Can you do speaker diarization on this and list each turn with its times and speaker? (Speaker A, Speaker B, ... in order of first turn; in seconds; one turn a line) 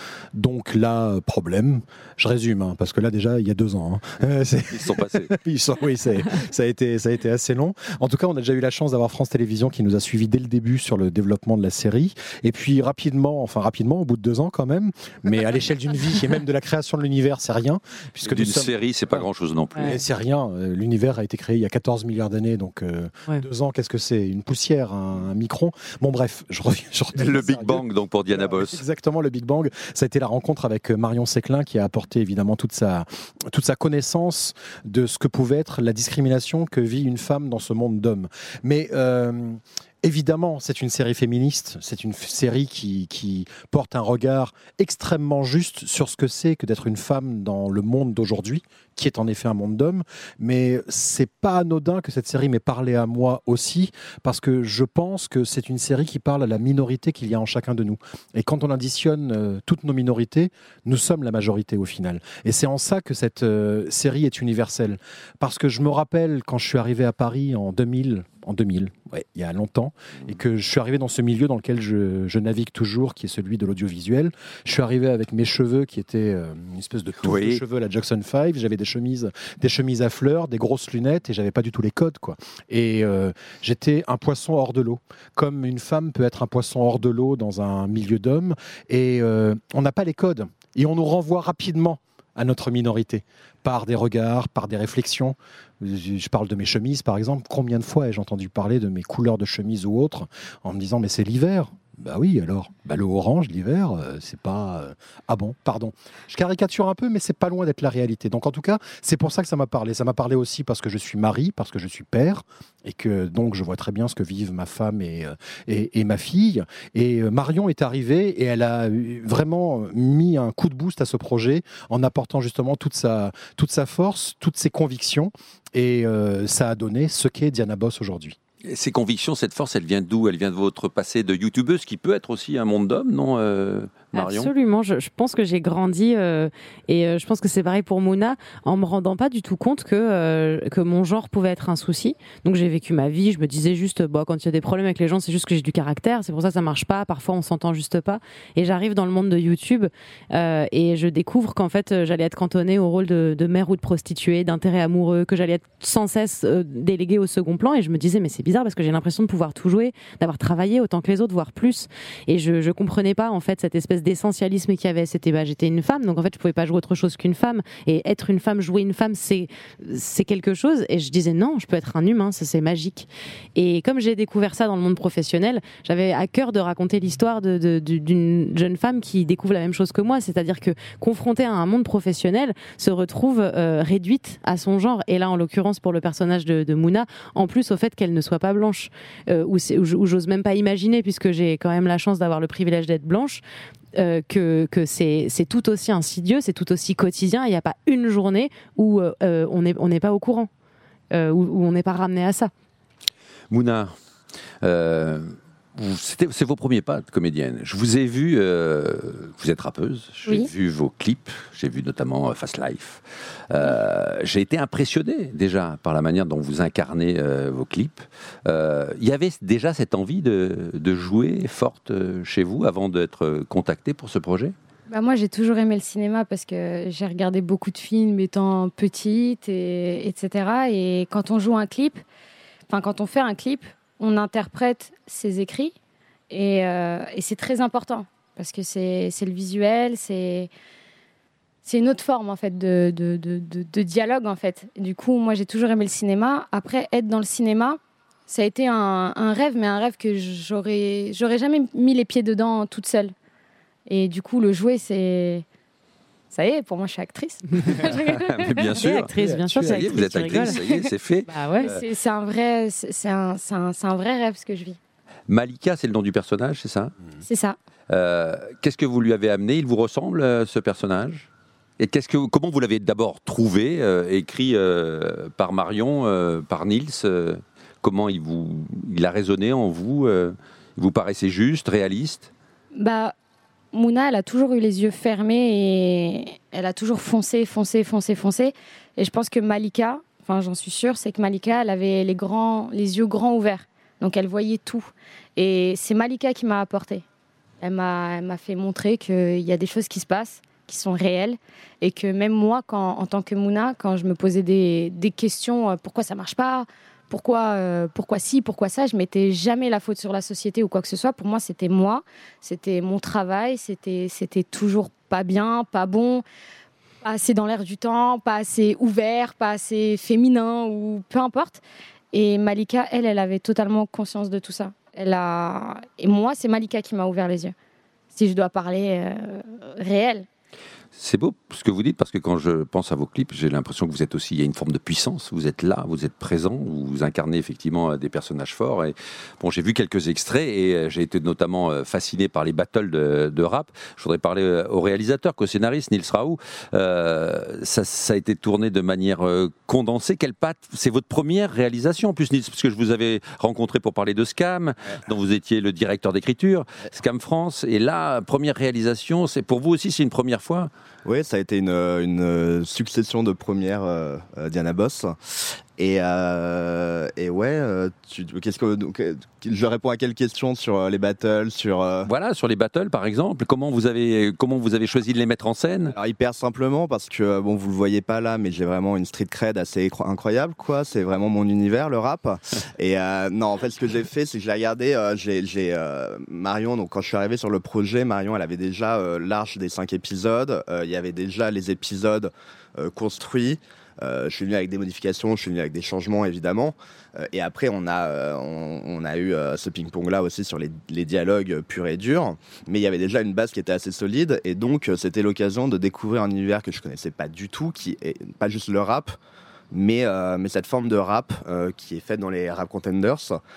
Speaker A: 0.3-19.2
Speaker B: 4.7-5.3
Speaker B: 18.2-20.0
Speaker A: 19.8-128.4
Speaker B: 27.1-28.8
Speaker B: 77.2-77.6
Speaker B: 128.6-134.5
Speaker C: 134.1-193.4
Speaker C: 193.9-200.5
Speaker C: 201.1-202.5
Speaker B: 203.5-203.9
Speaker B: 204.6-224.5
Speaker D: 224.9-232.0
Speaker D: 232.7-235.7
Speaker D: 236.3-240.5
Speaker D: 241.6-253.1
Speaker D: 253.9-255.4
Speaker D: 256.3-258.5
Speaker B: 257.7-261.8
Speaker C: 258.8-260.6
Speaker A: 259.2-259.9
Speaker D: 260.4-260.9
Speaker C: 261.3-261.7
Speaker D: 261.6-264.8
Speaker B: 265.3-266.9
Speaker D: 267.2-267.6
Speaker B: 267.9-271.3
Speaker B: 271.8-282.3
Speaker D: 282.7-283.1
Speaker D: 283.7-297.0
Speaker D: 297.6-316.2
Speaker D: 317.0-327.5
Speaker D: 328.1-330.3
Speaker B: 330.9-360.7
Speaker E: 361.1-372.1
Speaker B: 372.1-375.9
Speaker E: 375.9-409.1
Speaker E: 409.7-413.4